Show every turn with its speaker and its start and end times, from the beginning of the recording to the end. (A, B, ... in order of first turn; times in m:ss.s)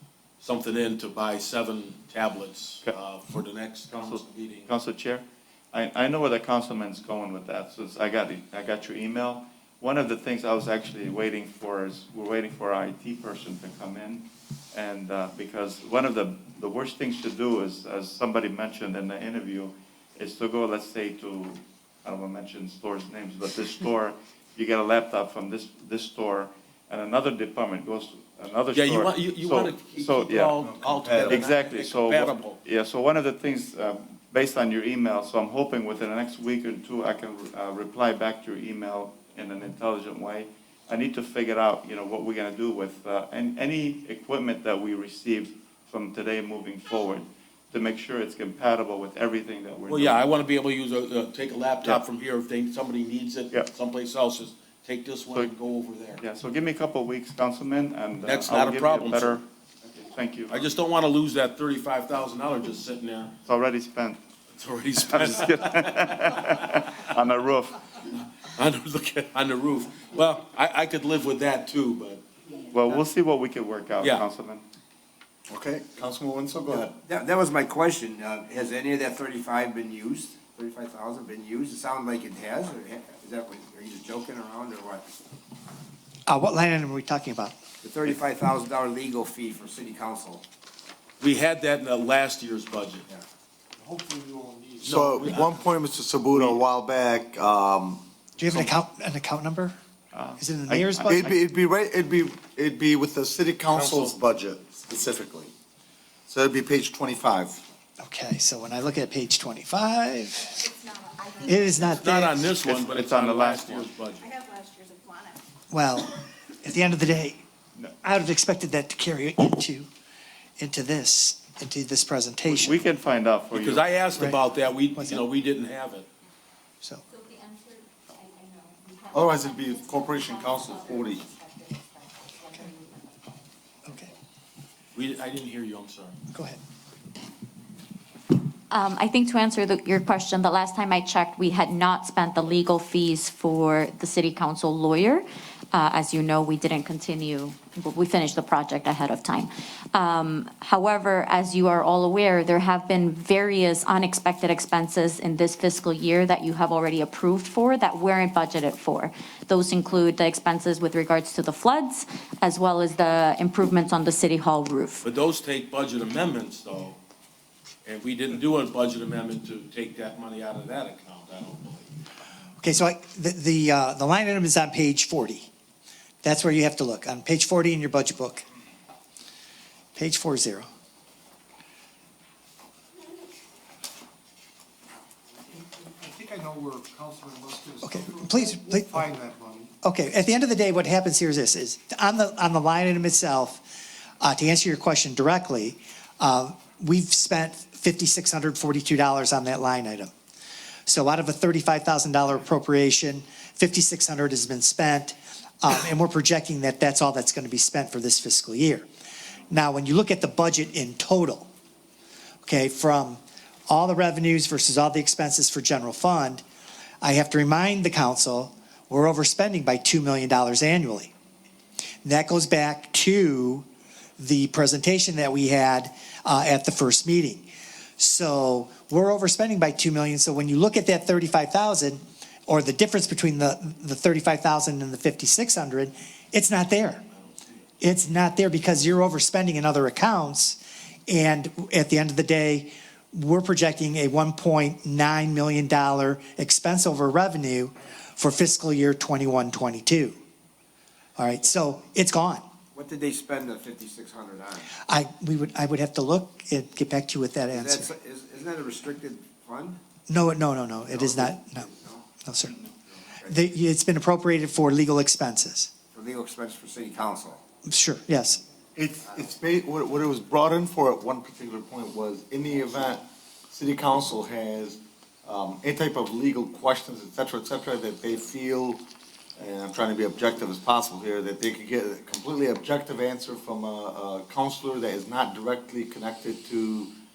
0:00.4-0:04.7 A
0:03.9-0:30.6 B
0:28.7-0:32.6 A
0:30.6-0:31.4 C
0:31.3-0:50.2 B
0:49.9-0:56.2 A
0:56.2-1:00.8 B
0:58.2-0:59.4 A
1:00.5-1:03.4 A
1:03.4-1:04.2 B
1:04.6-1:06.4 A
1:05.0-1:07.8 B
1:08.6-1:12.2 A
1:12.7-1:14.6 B
1:14.0-1:14.2 A
1:15.5-1:17.0 C
1:16.8-1:25.1 D
1:26.3-1:27.6 E
1:27.8-1:30.4 D
1:31.2-1:33.1 A
1:33.8-1:35.0 F
1:34.8-1:35.7 A
1:34.8-1:38.0 C
1:36.3-1:36.6 A
1:38.4-1:39.8 E
1:40.1-1:41.4 B
1:40.4-1:41.4 E
1:41.1-1:45.5 C
1:43.7-1:44.2 A
1:46.3-1:47.6 C
1:48.0-1:50.7 E
1:51.1-1:52.0 G
1:51.4-1:52.5 E
1:52.0-1:54.3 A
1:52.6-1:53.9 B
1:54.2-1:55.4 G
1:55.7-1:57.4 E
1:58.0-1:59.9 E
2:00.6-2:02.8 E
2:02.5-2:04.0 B
2:03.6-2:06.1 A
2:05.0-2:05.2 E
2:07.3-2:08.4 H
2:08.9-2:13.2 H
2:09.1-2:11.3 C
2:13.8-2:14.1 E
2:15.0-2:16.2 A
2:16.3-2:16.6 E
2:18.7-2:45.1 H
2:45.0-2:47.0 A
2:47.8-2:51.9 A
2:52.6-2:55.5 E
2:56.2-2:58.4 E
3:00.0-3:00.7 E
3:05.6-3:09.7 F
3:07.8-3:09.1 E
3:09.8-3:13.7 E
3:14.2-3:20.1 E
3:20.9-3:28.9 E
3:29.5-3:31.5 E
3:32.4-3:36.4 E
3:37.0-3:41.1 E
3:42.0-3:43.7 E
3:44.2-3:57.1 E
3:57.8-4:10.2 E
4:11.2-4:12.4 E
4:12.7-4:14.7 D
4:14.9-4:17.9 E
4:17.5-4:19.8 D
4:20.1-4:21.7 E
4:20.9-4:22.0 D
4:22.2-4:22.6 E
4:22.9-4:23.4 D
4:23.2-4:25.7 E
4:25.9-4:27.4 D
4:27.7-4:28.4 E
4:28.8-4:38.8 C
4:39.4-4:46.9 C